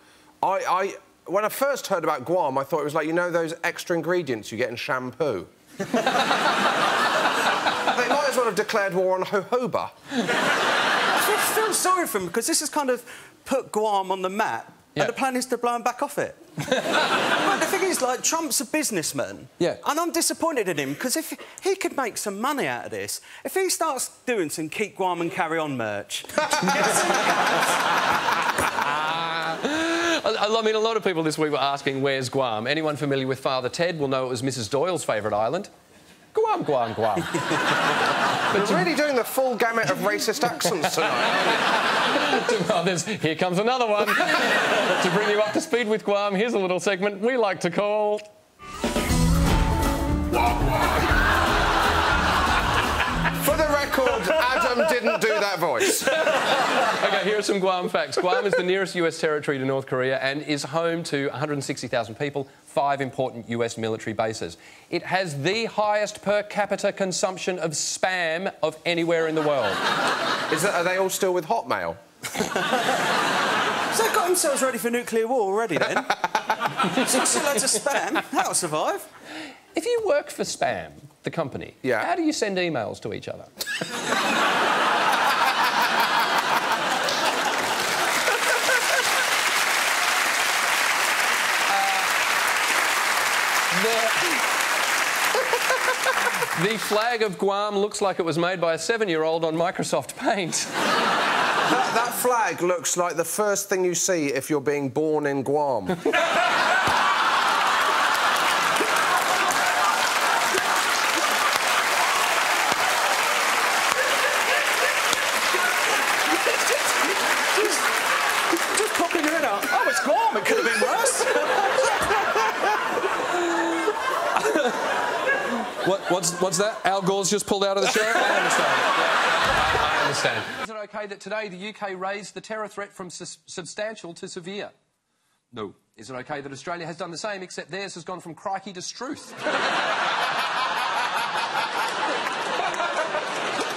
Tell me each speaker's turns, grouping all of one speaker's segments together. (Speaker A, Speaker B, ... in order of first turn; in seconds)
Speaker A: 0.4-5.5, 7.8-9.9, 38.5-41.6, 53.4-56.2, 70.5-72.0, 81.8-82.1, 101.6-106.0
Speaker B: 11.1-16.4, 17.3-27.4, 73.9-79.1, 117.5-117.8, 118.5-122.5
Speaker C: 28.8-35.7, 36.3-37.8, 38.5-38.9, 40.7-48.2, 56.0-69.8, 79.7-83.5, 91.7-92.1, 93.7-94.5, 96.2-100.7, 123.8-124.9, 125.7-134.7, 135.5-139.5